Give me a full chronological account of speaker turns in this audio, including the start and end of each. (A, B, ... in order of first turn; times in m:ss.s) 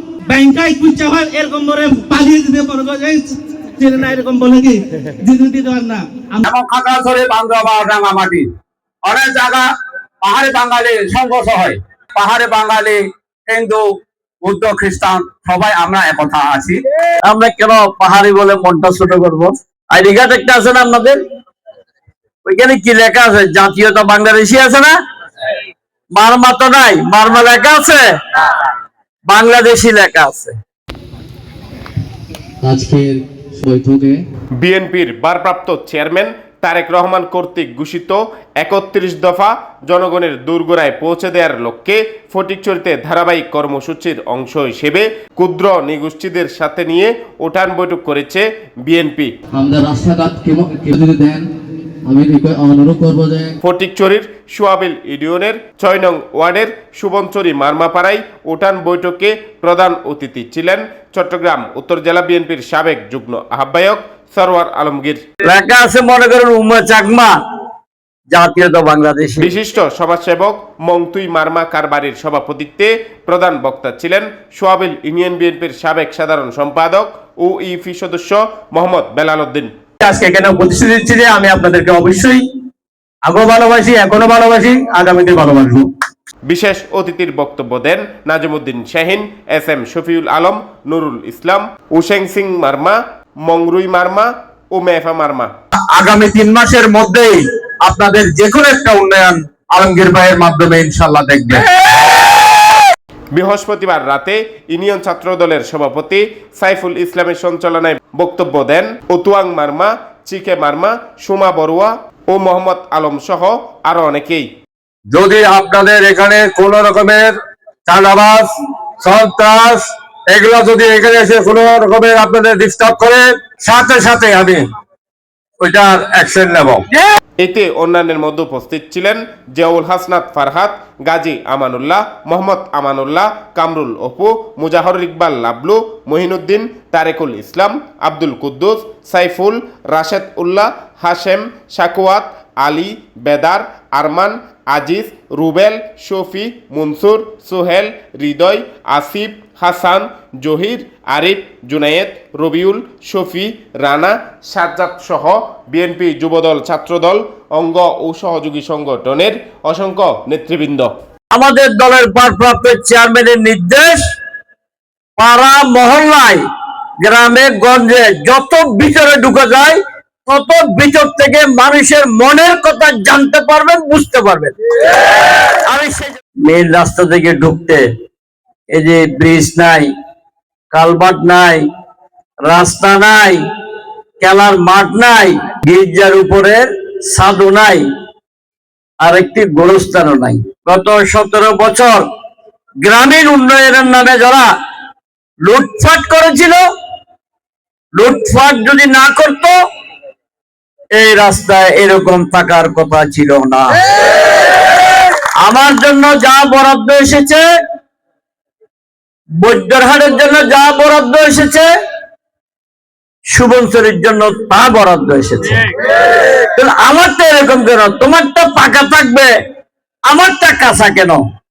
0:00.3-0:06.4 A
0:06.4-0:08.4 B
0:09.0-0:09.6 B
0:10.2-0:13.8 B
0:14.4-0:16.8 B
0:17.2-0:21.2 C
0:22.4-0:24.9 C
0:26.2-0:28.0 C
0:29.3-0:30.5 C
0:32.6-0:34.2 D
0:34.6-0:49.3 E
0:49.5-0:51.5 D
0:52.0-0:53.6 D
0:53.6-1:05.2 E
1:05.4-1:07.3 C
1:08.3-1:09.5 C
1:09.4-1:19.7 E
1:20.0-1:22.4 B
1:23.2-1:25.9 B
1:26.4-1:35.5 E
1:35.9-1:41.6 B
1:43.3-1:54.5 E
1:55.1-1:57.3 B
1:57.9-1:58.5 B
1:59.0-2:04.6 B
2:05.6-2:06.8 B
2:07.4-2:40.9 E
2:41.3-2:44.0 C
2:45.2-2:46.4 C
2:47.0-2:57.8 C
2:58.7-2:59.9 C
3:00.7-3:01.6 C
3:02.5-3:03.4 C
3:04.2-3:07.8 C
3:09.0-3:12.0 C
3:12.8-3:14.5 C
3:15.5-3:16.6 C
3:18.0-3:19.5 C
3:21.0-3:23.8 C
3:25.4-3:27.4 C
3:29.4-3:31.7 C
3:33.3-3:35.9 C
3:36.5-3:39.3 C
3:40.1-3:41.2 C